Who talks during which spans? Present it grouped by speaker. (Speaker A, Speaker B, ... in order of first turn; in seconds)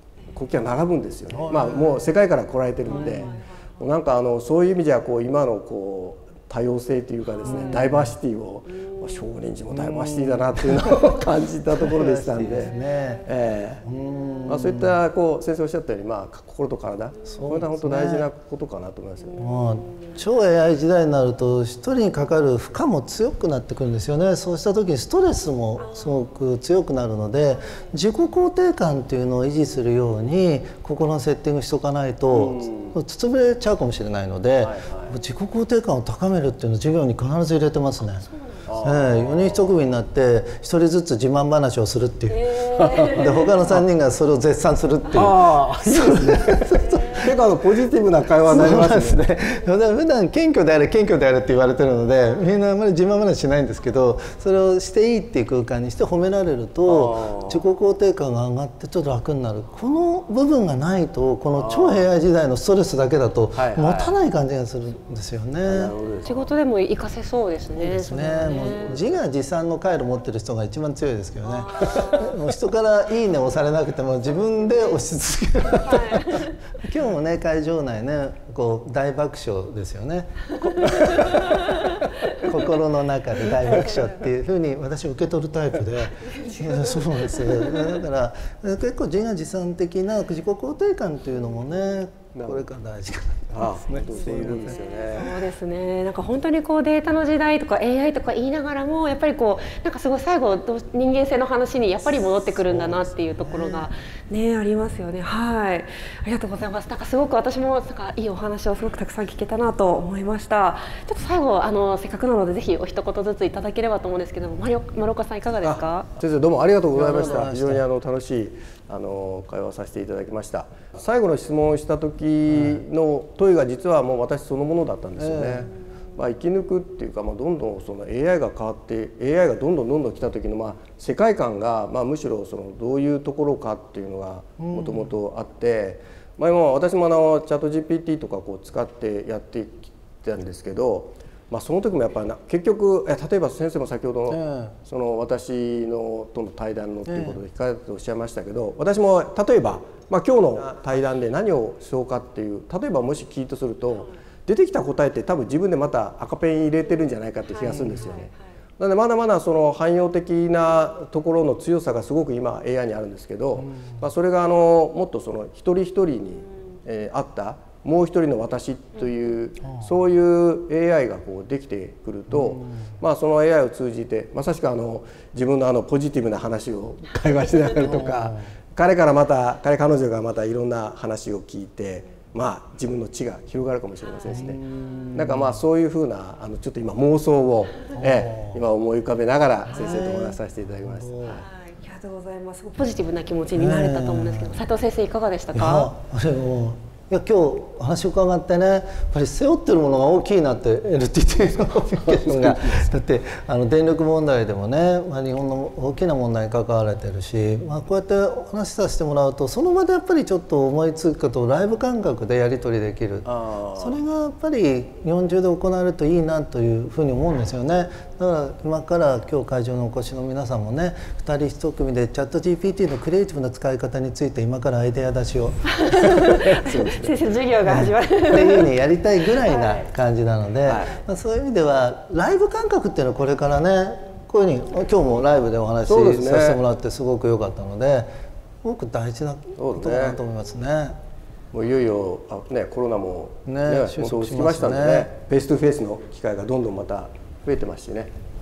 Speaker A: 0.3-13.8, 14.5-19.7, 32.3-33.0, 34.6-35.1, 38.6-39.7, 42.7-43.8, 45.1-49.2, 56.9-57.6, 61.5-62.1, 63.5-64.2, 65.6-66.5, 68.5-69.2, 92.3-92.7, 93.5-95.5, 102.7-103.0, 115.6-191.4, 202.0-202.8, 213.2-214.0, 225.9-227.2, 230.6-230.9, 235.8-236.6, 239.6-240.2, 241.5-248.1
Speaker B: 1.4-2.0, 2.9-3.4, 7.4-8.1, 9.7-11.1, 11.7-13.3, 13.8-15.0, 17.2-18.3, 19.4-47.5, 48.4-65.9, 67.8-94.8, 103.4-103.9, 116.9-117.8, 122.5-122.8, 125.2-125.7, 134.6-135.1, 144.3-144.8, 147.1-147.4, 163.6-163.9, 169.6-169.9, 172.3-172.9, 177.8-178.4, 184.3-185.6, 187.9-188.6, 189.7-191.4, 193.5-194.6, 195.5-226.2, 227.6-238.1, 238.6-241.0, 243.5-245.1
Speaker C: 38.3-38.7, 42.4-43.3, 66.2-68.8, 71.7-72.2, 75.8-76.5, 80.8-82.3, 94.0-116.1, 191.4-195.9, 225.7-228.7, 229.4-229.8